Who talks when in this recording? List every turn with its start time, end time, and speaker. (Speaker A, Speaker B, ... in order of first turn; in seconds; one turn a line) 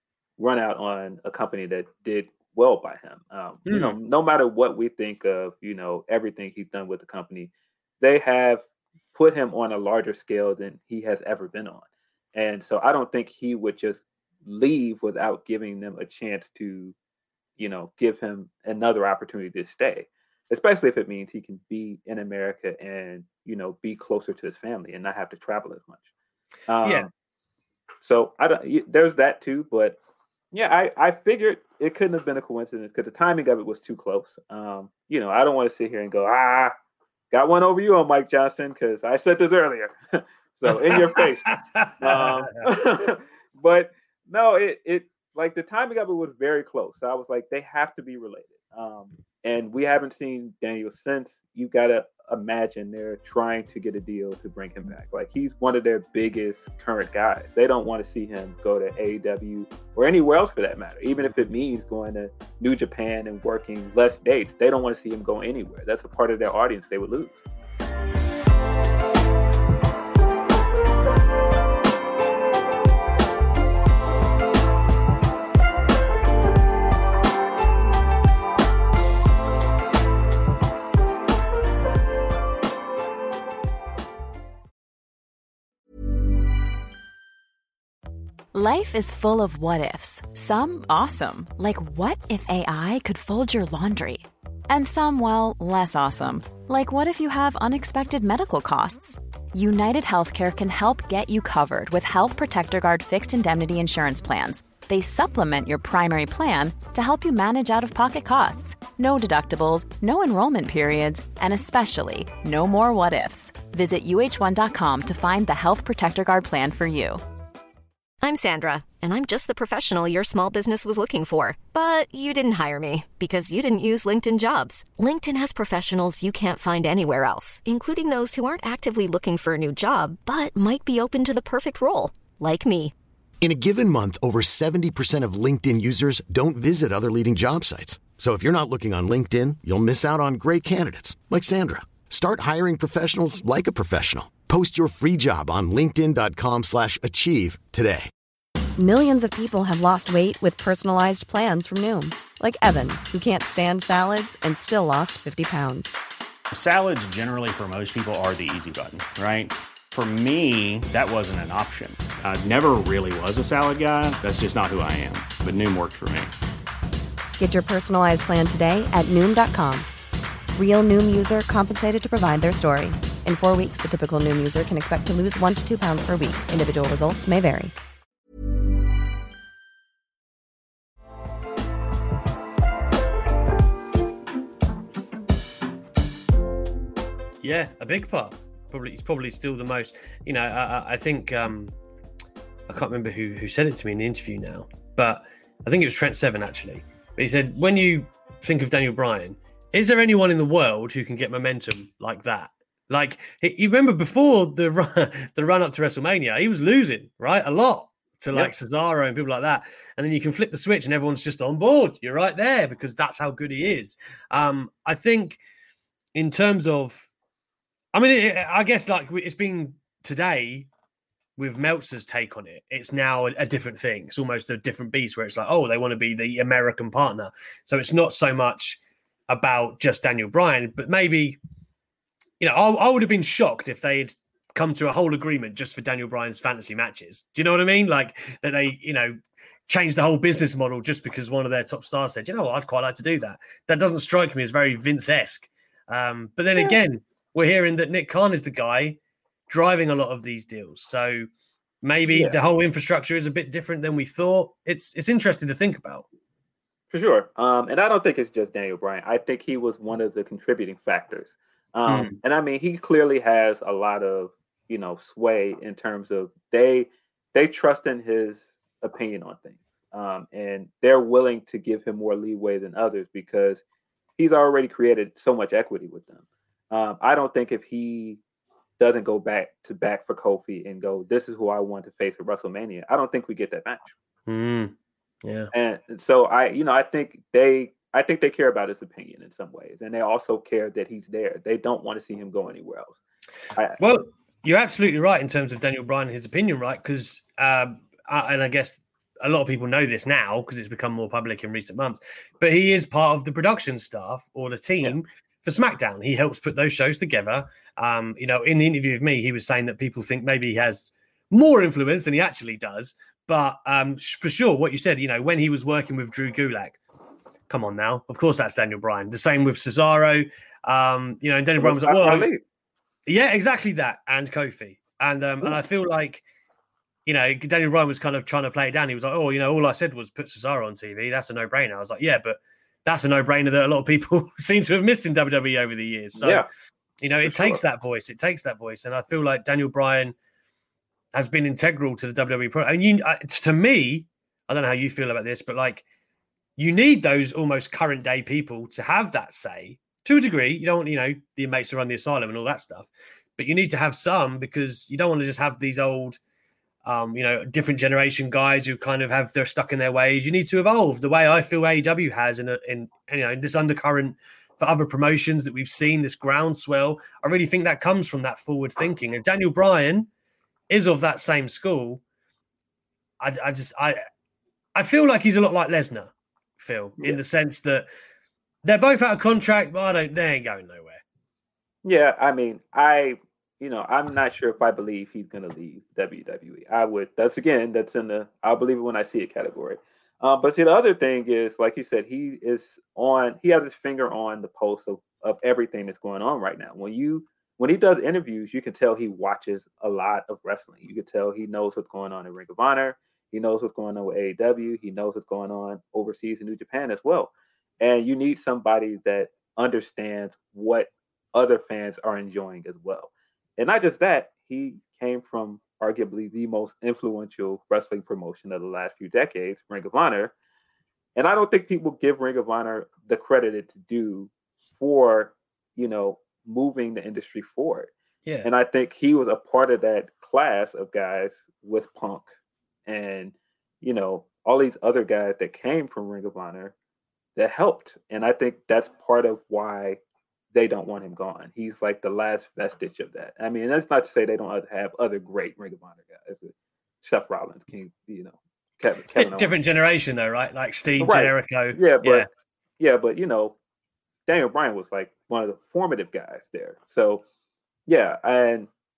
Speaker A: 0.4-16.9
Speaker B: 3.7-4.0
Speaker A: 17.6-26.0
Speaker A: 26.7-27.1
Speaker B: 26.8-27.1
Speaker A: 28.0-30.0
Speaker A: 30.5-36.7
Speaker A: 37.3-67.4
Speaker B: 40.7-42.4
Speaker C: 88.5-117.2
Speaker D: 118.2-132.9
Speaker E: 133.4-148.1
Speaker F: 148.8-155.9
Speaker G: 156.5-166.3
Speaker F: 167.4-169.9
Speaker F: 170.6-177.7
Speaker B: 187.4-191.8
Speaker B: 192.7-215.4
Speaker B: 216.2-217.1
Speaker B: 217.9-220.7
Speaker B: 221.4-228.8
Speaker B: 229.3-231.4
Speaker B: 232.4-249.0
Speaker B: 249.5-251.3
Speaker B: 251.8-256.1
Speaker A: 252.1-252.4
Speaker A: 256.9-273.6
Speaker B: 261.9-262.2
Speaker A: 274.2-278.2
Speaker A: 278.8-283.9
Speaker B: 284.3-285.5
Speaker A: 285.5-293.0
Speaker A: 293.5-293.8
Speaker B: 293.8-316.8
Speaker B: 317.5-322.3
Speaker A: 321.6-322.4
Speaker B: 323.1-326.2
Speaker B: 327.1-336.5
Speaker A: 336.2-336.5
Speaker B: 337.0-340.1
Speaker A: 337.2-337.6
Speaker B: 341.1-345.8
Speaker B: 346.6-356.2
Speaker B: 356.9-370.1
Speaker B: 370.7-372.0
Speaker B: 373.2-374.0
Speaker B: 374.8-377.9
Speaker B: 378.6-381.0
Speaker A: 381.8-420.3
Speaker A: 421.2-427.9
Speaker A: 428.4-432.3
Speaker A: 432.9-436.7
Speaker A: 437.4-440.0
Speaker A: 440.5-449.5
Speaker B: 449.1-452.3
Speaker A: 451.0-452.3
Speaker A: 452.8-453.6
Speaker A: 454.3-457.2
Speaker A: 457.9-458.7